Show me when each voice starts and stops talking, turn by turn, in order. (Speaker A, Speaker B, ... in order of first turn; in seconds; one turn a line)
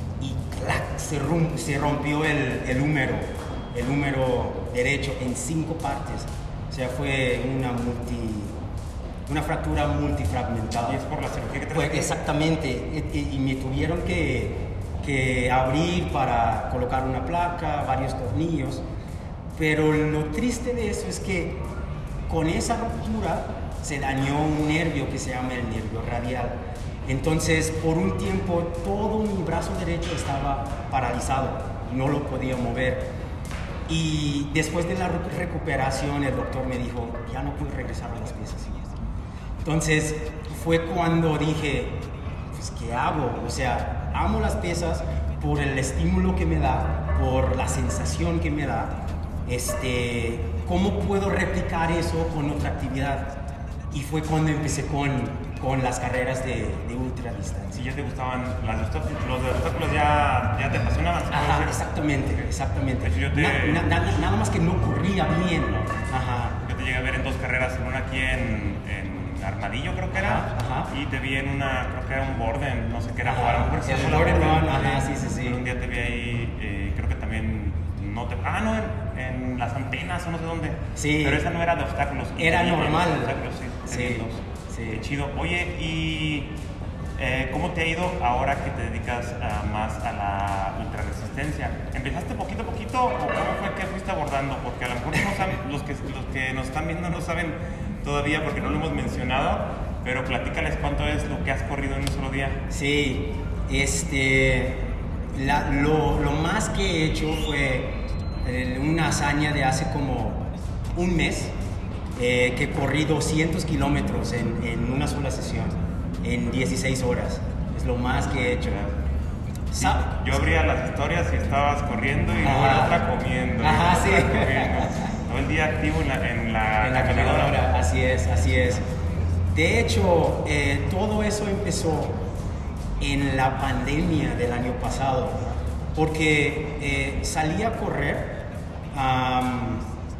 Speaker A: 0.2-8.6
Speaker A: 9.3-11.0
Speaker B: 10.8-12.2
Speaker A: 11.7-18.8
Speaker A: 19.6-21.6
Speaker A: 22.3-33.1
Speaker A: 33.9-38.9
Speaker A: 39.6-53.4
Speaker A: 53.9-57.8
Speaker B: 57.7-61.8
Speaker A: 61.3-66.6
Speaker B: 63.0-63.9
Speaker B: 65.7-66.0
Speaker B: 66.6-86.5
Speaker A: 70.1-70.9
Speaker A: 73.2-75.6
Speaker A: 81.0-81.5
Speaker A: 82.3-85.0
Speaker B: 87.2-102.6
Speaker A: 102.7-111.5
Speaker A: 112.2-118.8
Speaker A: 119.7-120.4
Speaker B: 119.7-127.6
Speaker A: 122.4-123.0
Speaker A: 123.6-125.1
Speaker A: 126.8-128.9
Speaker A: 129.5-132.2
Speaker A: 133.0-135.4
Speaker A: 135.9-139.8